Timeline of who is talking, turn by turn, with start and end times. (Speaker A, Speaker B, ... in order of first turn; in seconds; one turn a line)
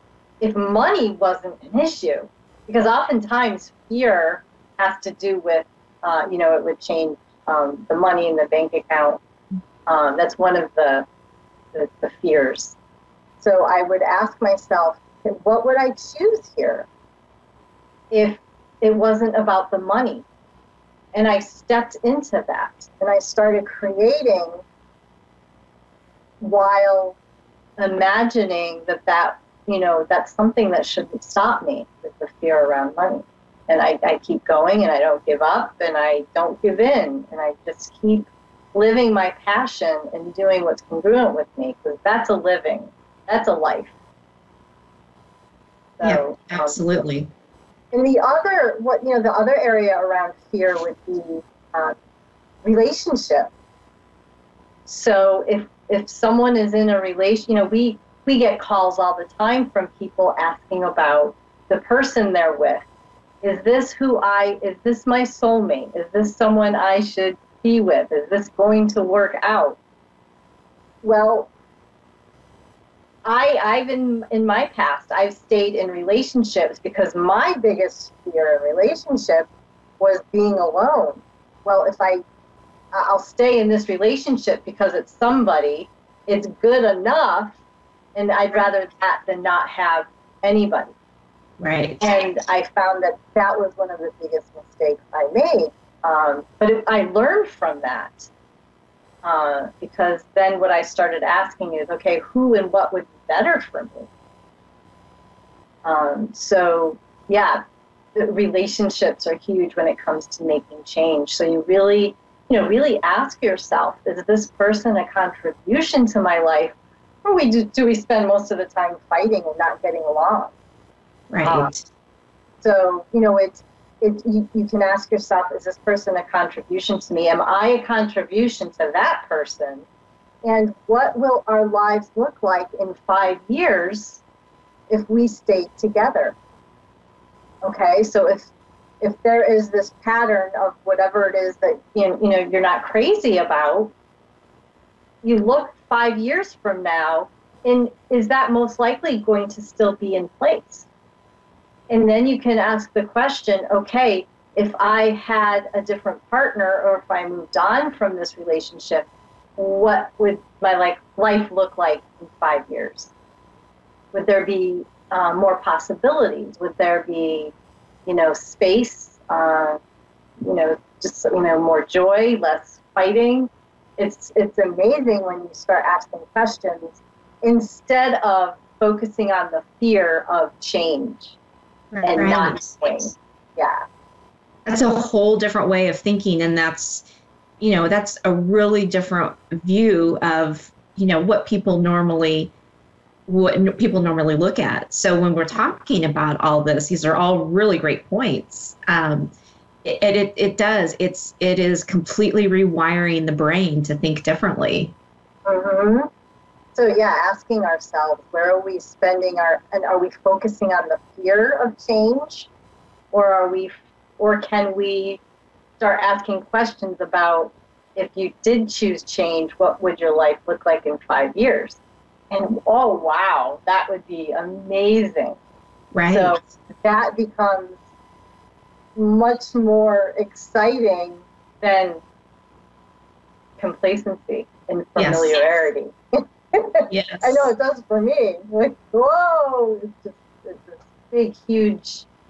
Speaker A: 0.4-9.2
Speaker A: 9.9-11.1
Speaker A: 11.7-12.8
Speaker A: 13.4-16.9
Speaker A: 18.1-20.2
Speaker A: 21.1-24.6
Speaker A: 26.4-27.1
Speaker A: 27.8-43.9
Speaker A: 46.0-46.8
Speaker B: 46.0-47.3
Speaker A: 47.9-52.0
Speaker A: 52.6-53.5
Speaker A: 54.9-62.8
Speaker A: 63.4-69.8
Speaker A: 71.0-71.5
Speaker A: 73.2-79.5
Speaker A: 80.0-82.2
Speaker A: 82.9-87.6
Speaker A: 88.1-90.9
Speaker B: 91.6-92.0
Speaker A: 92.0-98.3
Speaker A: 99.2-104.1
Speaker A: 105.8-107.6
Speaker A: 108.1-120.5
Speaker B: 121.3-121.8
Speaker A: 121.4-121.7
Speaker A: 122.6-129.8
Speaker A: 130.4-134.2
Speaker A: 134.9-136.3
Speaker A: 137.6-138.5
Speaker A: 139.0-143.9
Speaker A: 145.2-150.8
Speaker A: 151.9-163.1
Speaker A: 164.1-167.5
Speaker A: 168.1-169.8
Speaker A: 170.4-181.3
Speaker B: 181.9-183.1
Speaker A: 182.0-183.8
Speaker B: 184.7-187.0
Speaker B: 187.6-192.5
Speaker B: 193.3-199.3
Speaker B: 199.8-204.9
Speaker A: 205.4-206.1
Speaker A: 206.7-212.5
Speaker A: 213.1-215.2
Speaker A: 215.8-221.8
Speaker A: 222.3-225.4
Speaker B: 225.9-226.4
Speaker A: 226.1-227.8
Speaker A: 228.9-232.0
Speaker A: 233.6-242.1
Speaker B: 234.9-235.3
Speaker B: 236.9-237.4